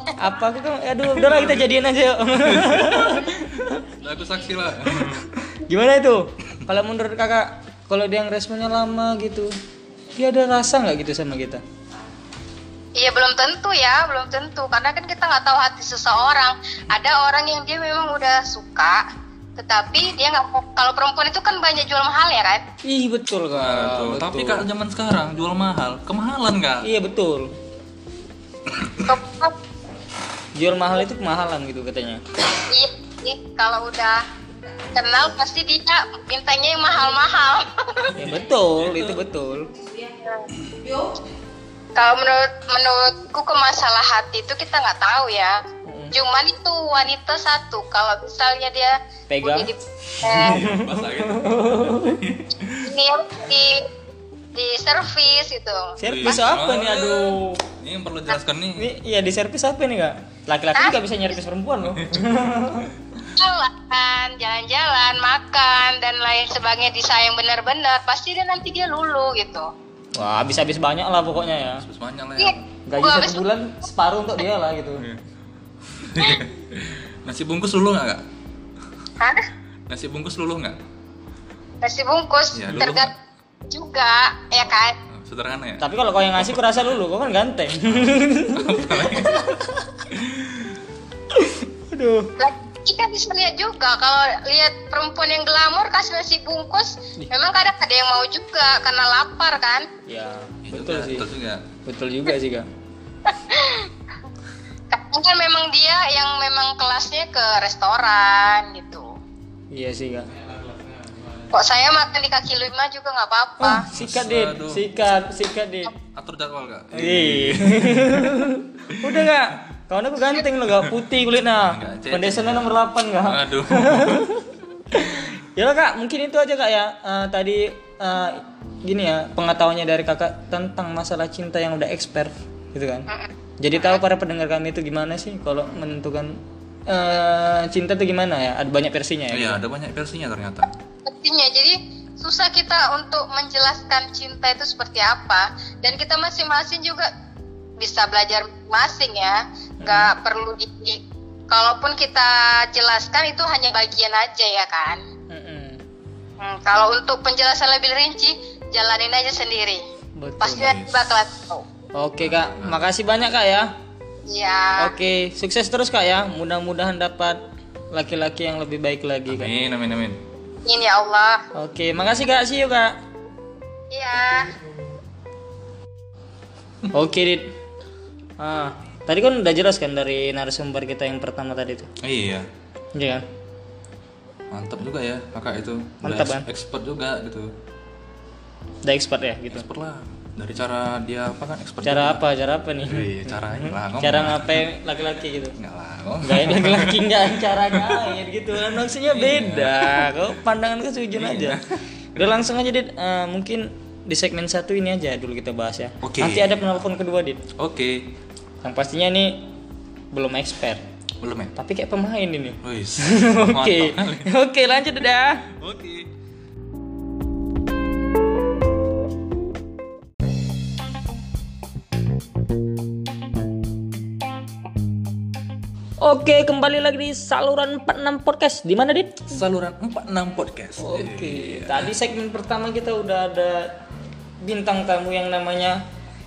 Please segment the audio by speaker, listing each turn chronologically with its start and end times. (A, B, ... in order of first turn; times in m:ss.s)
0:00.2-0:03.9 A
0:01.1-0:01.7 B
0:02.4-0:05.3 B
0:04.9-0:09.5 A
0:10.1-0:11.6 A
0:13.0-0:19.1 C
0:19.6-0:22.6 C
0:22.8-0:24.7 A
0:23.5-0:26.9 B
0:26.8-0:27.5 A
0:28.7-0:29.1 B
0:29.0-0:29.6 C
0:30.6-0:32.2 A
0:32.6-0:34.2 C
0:34.9-0:38.1 C
0:38.2-0:39.7 A
0:38.2-0:39.2 B
0:40.2-0:40.5 C
0:42.0-0:45.6 C
0:45.9-0:46.2 A
0:46.1-0:50.6 C
0:49.3-0:49.7 A
0:50.2-0:52.2 A
0:50.3-0:52.9 B
0:52.8-0:53.9 C
0:54.6-0:56.0 C
0:56.0-0:57.6 A
0:56.0-0:58.9 B
0:58.8-1:03.0 A
1:01.9-1:02.8 B
1:03.3-1:09.7 C
1:10.2-1:11.8 A
1:11.7-1:12.6 B
1:12.4-1:13.5 C
1:12.9-1:15.1 A
1:15.0-1:15.2 B
1:15.9-1:18.2 B
1:19.2-1:19.5 C
1:19.9-1:20.8 B
1:21.8-1:23.1 C
1:22.5-1:23.1 B
1:23.7-1:25.0 C
1:25.1-1:25.9 B
1:25.8-1:29.8 A
1:28.0-1:30.8 B
1:31.4-1:32.3 A
1:32.4-1:39.9 C
1:40.1-1:41.3 A
1:40.7-1:41.7 B
1:41.9-1:42.7 A
1:43.3-1:43.9 C
1:44.9-1:49.1 C
1:49.7-1:50.3 A
1:51.5-1:53.9 C
1:53.6-1:55.9 A
1:53.9-1:55.1 B
1:56.1-1:59.3 B
1:56.9-2:13.1 A
2:00.7-2:01.0 B
2:01.5-2:04.3 B
2:13.1-2:14.0 C
2:13.6-2:19.6 A
2:19.3-2:20.7 B
2:21.0-2:27.1 C
2:27.8-2:35.0 C
2:29.8-2:30.1 A
2:35.3-2:35.8 A
2:36.4-2:39.8 C
2:40.2-2:40.7 A
2:40.4-2:41.7 C
2:40.5-2:41.1 B
2:42.0-2:43.7 A
2:42.2-2:42.8 B
2:44.3-2:45.0 C
2:44.8-2:47.4 A
2:47.9-2:49.5 A
2:49.3-2:50.2 B
2:50.6-2:51.4 C
2:51.5-2:53.0 A
2:53.9-2:54.5 C
2:56.9-2:57.5 A
2:58.4-3:01.9 A
3:02.0-3:02.5 B
3:03.0-3:03.2 A
3:04.5-3:07.5 B
3:06.0-3:06.5 A
3:08.8-3:09.7 A
3:09.5-3:12.2 B
3:11.8-3:15.6 A
3:12.8-3:14.7 B
3:15.6-3:20.2 B
3:16.2-3:21.6 A
3:21.1-3:21.8 B
3:22.2-3:27.4 A
3:26.0-3:26.8 B
3:27.6-3:28.1 B
3:28.6-3:29.5 A
3:30.1-3:30.8 A
3:31.2-3:31.5 B
3:31.6-3:35.5 A
3:32.6-3:34.3 B
3:35.5-3:36.1 B
3:46.0-3:49.4 A
3:49.3-3:51.9 B
3:50.8-3:53.8 A
3:54.4-3:55.8 A